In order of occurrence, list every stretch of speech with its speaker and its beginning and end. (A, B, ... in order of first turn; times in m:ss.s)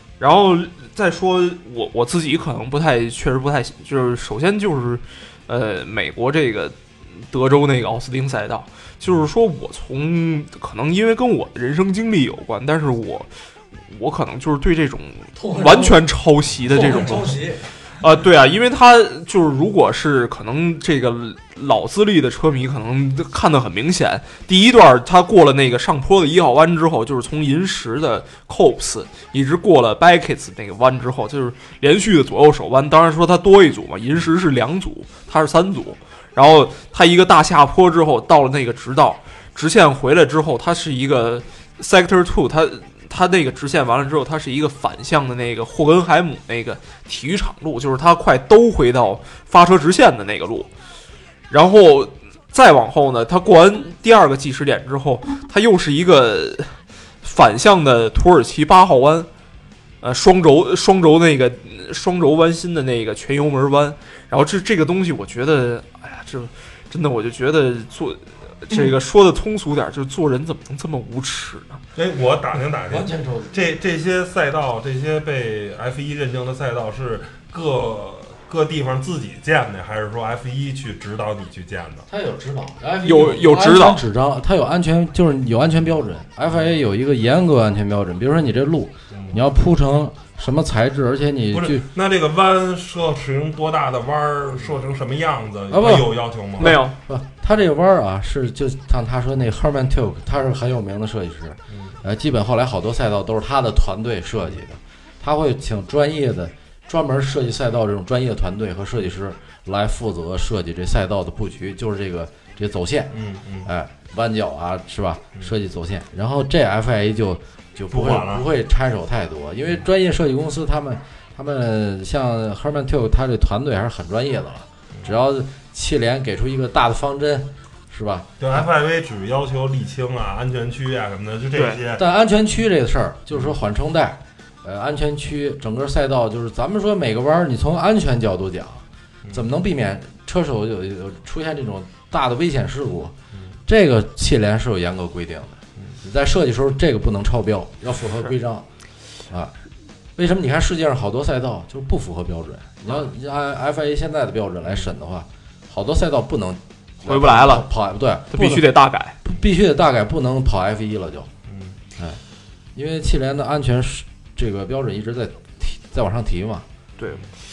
0:00.2-0:13.3 A
0:13.8-0:17.3 A
0:15.3-0:16.0 B
0:16.7-0:17.6 B
0:18.0-0:50.7 A
0:51.5-0:59.3 A
1:00.0-1:11.8 A
1:12.0-1:22.0 C
1:12.9-1:13.6 B
1:22.1-1:31.8 B
1:23.0-1:24.0 A
1:26.5-1:26.8 C
1:29.1-1:29.4 C
1:31.5-1:36.8 C
1:35.7-2:08.7 B
1:36.6-1:36.9 A
1:53.1-1:53.7 C
1:57.9-1:58.4 C
2:08.4-2:12.0 C
2:11.5-2:11.8 A
2:11.9-2:23.1 B
2:23.7-2:28.7 B
2:29.3-2:29.5 B
2:30.2-2:38.7 B
2:37.0-2:37.7 A
2:38.3-2:39.2 A
2:39.2-2:41.3 B
2:41.5-2:41.8 C
2:42.7-2:46.6 B
2:47.0-2:47.2 A